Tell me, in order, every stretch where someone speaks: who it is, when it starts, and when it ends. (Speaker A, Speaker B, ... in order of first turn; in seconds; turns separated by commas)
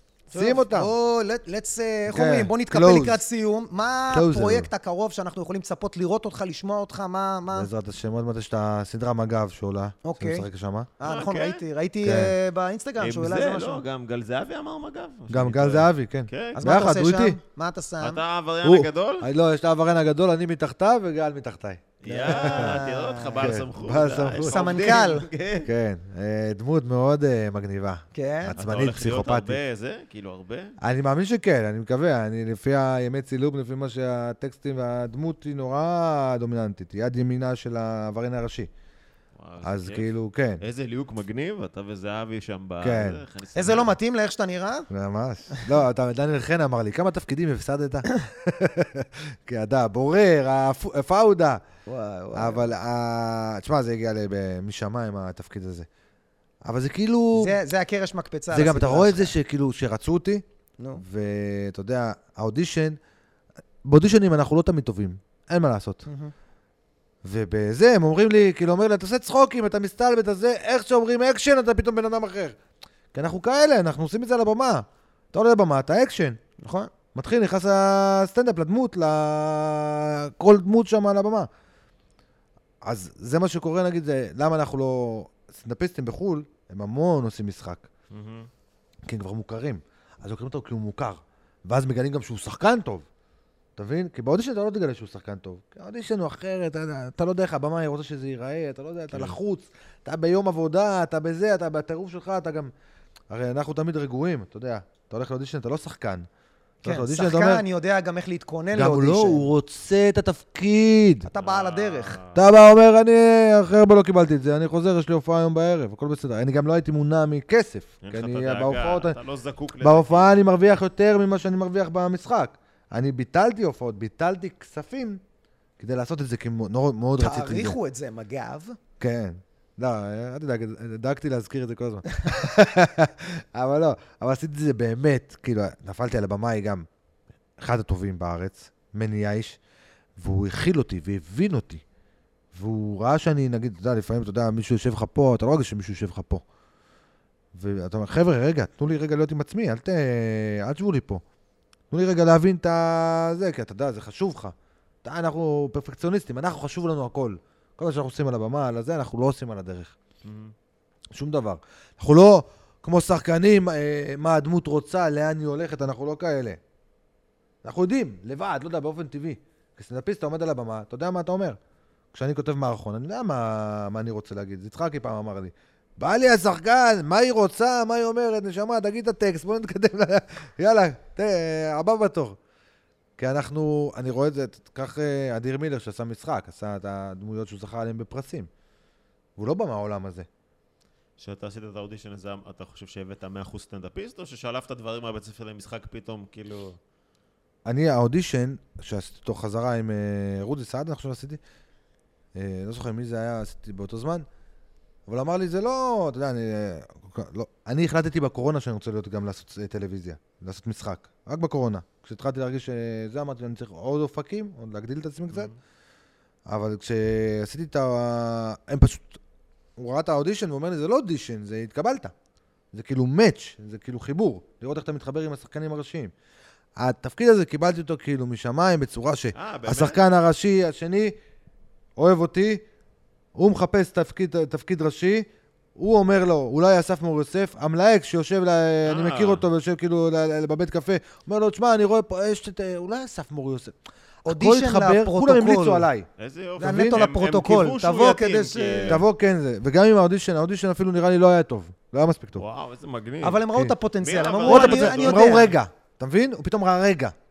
Speaker A: 0.3-0.9, Speaker B: 0.3-7.7, Speaker A: 2.1-3.2, Speaker A: 4.1-4.7, Speaker A: 7.5-10.9, Speaker B: 10.1-10.4, Speaker B: 11.0-13.8, Speaker C: 11.0-11.6, Speaker A: 12.0-12.3, Speaker C: 13.0-16.6, Speaker A: 15.3-17.4, Speaker B: 16.6-18.2, Speaker C: 18.0-19.3, Speaker A: 18.6-22.8, Speaker C: 22.0-25.7, Speaker B: 22.0-23.4, Speaker A: 23.4-24.8, Speaker B: 24.4-25.3, Speaker A: 25.6-29.6, Speaker B: 28.1-28.6, Speaker C: 28.6-30.8, Speaker A: 30.8-38.7, Speaker C: 39.4-44.0, Speaker A: 39.6-40.6, Speaker A: 42.8-43.2, Speaker B: 43.5-44.9, Speaker A: 44.9-51.6, Speaker B: 51.9-52.7, Speaker A: 52.3-55.9, Speaker A: 56.6-57.6, Speaker B: 57.4-59.3, Speaker A: 58.5-60.4, Speaker A: 61.0-63.0, Speaker A: 63.8-66.0, Speaker B: 66.1-66.3, Speaker A: 67.2-72.6, Speaker A: 73.1-76.4, Speaker B: 76.6-76.9, Speaker A: 77.2-81.5, Speaker A: 82.8-87.9, Speaker C: 88.1-88.5, Speaker A: 89.1-93.1, Speaker A: 93.8-102.7, Speaker C: 99.1-99.4, Speaker A: 103.3-106.3, Speaker A: 106.8-107.7, Speaker B: 106.8-109.5, Speaker A: 108.7-111.3, Speaker B: 111.3-112.2, Speaker C: 111.4-112.5, Speaker A: 112.3-119.2, Speaker C: 118.0-120.4, Speaker A: 119.8-125.2, Speaker A: 125.8-127.8, Speaker B: 127.2-128.8, Speaker A: 129.0-136.9, Speaker A: 137.6-139.6, Speaker A: 140.2-141.8, Speaker A: 142.5-146.4, Speaker A: 147.5-151.2, Speaker A: 151.9-159.9, Speaker C: 160.2-160.5, Speaker A: 161.1-166.6, Speaker A: 167.6-171.6, Speaker A: 172.1-182.4, Speaker A: 183.2-188.5, Speaker A: 189.4-190.3, Speaker C: 191.2-196.8, Speaker A: 197.7-201.4, Speaker A: 202.3-204.3, Speaker A: 205.1-215.5, Speaker C: 215.3-215.6, Speaker A: 216.5-219.2, Speaker A: 219.8-222.1, Speaker A: 222.7-226.1, Speaker A: 226.8-231.2, Speaker C: 229.3-230.0, Speaker A: 232.0-232.7, Speaker A: 233.3-243.8, Speaker C: 238.8-239.5, Speaker B: 244.2-245.9, Speaker A: 244.3-246.1, Speaker C: 246.2-249.0, Speaker B: 246.6-249.0, Speaker A: 246.6-247.1, Speaker A: 248.9-252.4, Speaker C: 252.4-255.5, Speaker B: 253.2-255.5, Speaker A: 254.5-257.1